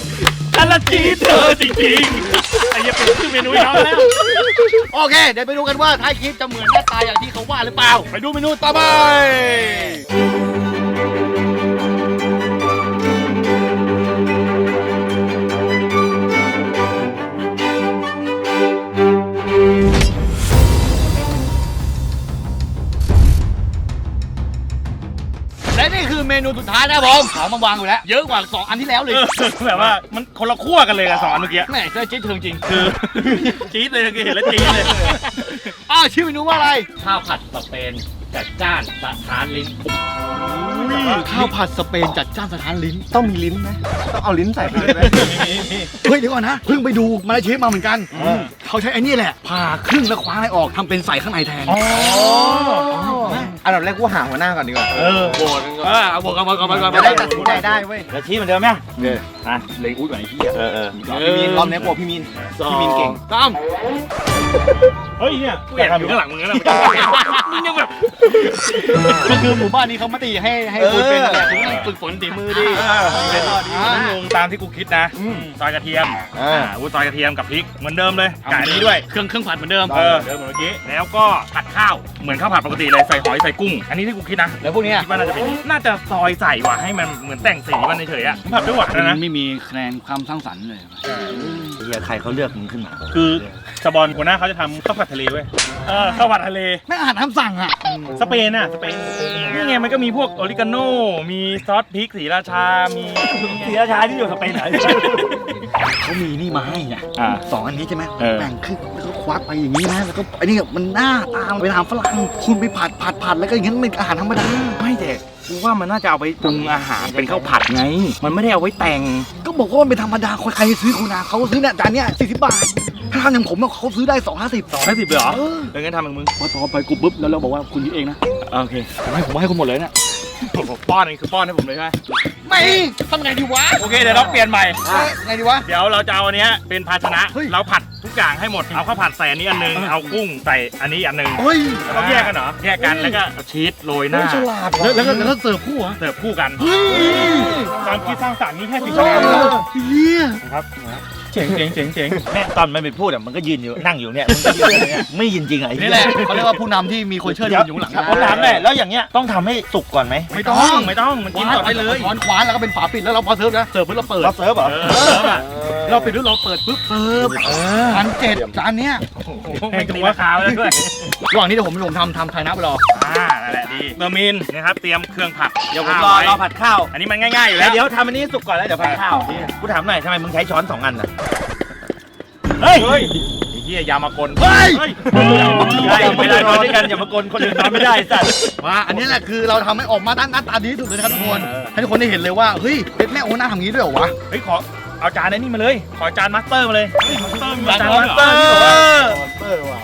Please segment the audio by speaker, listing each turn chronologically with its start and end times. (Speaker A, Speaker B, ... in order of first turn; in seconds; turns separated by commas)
Speaker A: 0.3-4.2, Speaker B: 0.7-1.7, Speaker B: 3.5-10.0, Speaker B: 25.7-29.3, Speaker A: 29.1-31.7, Speaker B: 31.6-33.6, Speaker A: 32.7-35.2, Speaker B: 34.4-36.9, Speaker C: 36.9-39.8, Speaker D: 40.4-41.3, Speaker A: 40.6-41.5, Speaker B: 41.0-43.1, Speaker D: 43.1-45.9, Speaker A: 44.7-45.7, Speaker B: 46.0-53.4, Speaker A: 48.1-48.5, Speaker D: 48.1-48.5, Speaker A: 51.7-52.9, Speaker D: 52.0-56.0, Speaker E: 53.2-53.5, Speaker A: 54.9-55.5, Speaker B: 55.8-57.7, Speaker A: 56.7-57.7, Speaker D: 56.8-58.0, Speaker E: 56.8-58.9, Speaker B: 59.8-61.9, Speaker E: 60.5-61.0, Speaker D: 61.0-63.2, Speaker E: 62.6-63.2, Speaker B: 63.3-63.6, Speaker A: 65.2-67.6, Speaker E: 65.7-66.2, Speaker B: 66.5-72.9, Speaker D: 69.0-69.3, Speaker D: 70.7-71.7, Speaker A: 71.5-71.9, Speaker E: 72.5-74.0, Speaker A: 72.5-79.0, Speaker D: 72.6-73.5, Speaker B: 73.6-74.2, Speaker D: 75.2-75.5, Speaker D: 76.3-76.7, Speaker B: 78.5-80.0, Speaker D: 79.9-80.3, Speaker A: 79.9-89.2, Speaker B: 84.6-85.1, Speaker B: 88.9-91.7, Speaker A: 91.0-91.3, Speaker E: 91.8-93.1, Speaker A: 93.1-96.8, Speaker B: 95.8-96.3, Speaker B: 96.9-97.8, Speaker A: 98.1-103.8, Speaker E: 103.2-105.4, Speaker A: 104.5-105.5, Speaker B: 106.0-114.7, Speaker A: 107.2-107.4, Speaker A: 108.2-108.5, Speaker A: 114.4-119.3, Speaker E: 117.0-117.7, Speaker B: 119.4-125.7, Speaker A: 124.7-126.3, Speaker B: 126.4-128.2, Speaker A: 128.5-128.9, Speaker B: 129.0-129.9, Speaker A: 130.4-132.0, Speaker B: 132.4-135.7, Speaker A: 133.8-134.8, Speaker D: 134.8-135.1, Speaker A: 135.6-144.5, Speaker B: 137.3-137.6, Speaker B: 141.4-143.2, Speaker D: 144.1-145.3, Speaker B: 144.8-146.0, Speaker A: 146.0-149.6, Speaker B: 146.6-147.7, Speaker D: 146.9-147.7, Speaker B: 148.8-150.4, Speaker D: 148.9-149.6, Speaker A: 150.4-152.2, Speaker D: 151.3-152.2, Speaker E: 152.3-156.5, Speaker B: 155.8-158.4, Speaker E: 157.2-160.3, Speaker A: 158.1-158.6, Speaker A: 160.3-162.2, Speaker B: 160.3-169.0, Speaker E: 164.2-165.2, Speaker A: 164.6-165.4, Speaker D: 165.4-166.1, Speaker D: 167.2-167.9, Speaker A: 167.4-167.8, Speaker A: 169.2-170.9, Speaker B: 169.7-170.7, Speaker E: 169.7-170.2, Speaker B: 171.3-172.8, Speaker A: 172.9-176.4, Speaker E: 175.7-176.9, Speaker A: 176.9-177.8, Speaker E: 177.5-181.1, Speaker A: 182.6-188.4, Speaker B: 184.4-186.7, Speaker E: 185.5-188.4, Speaker B: 188.6-194.1, Speaker A: 191.0-191.7, Speaker A: 194.3-199.1, Speaker B: 197.6-198.9, Speaker E: 197.7-199.2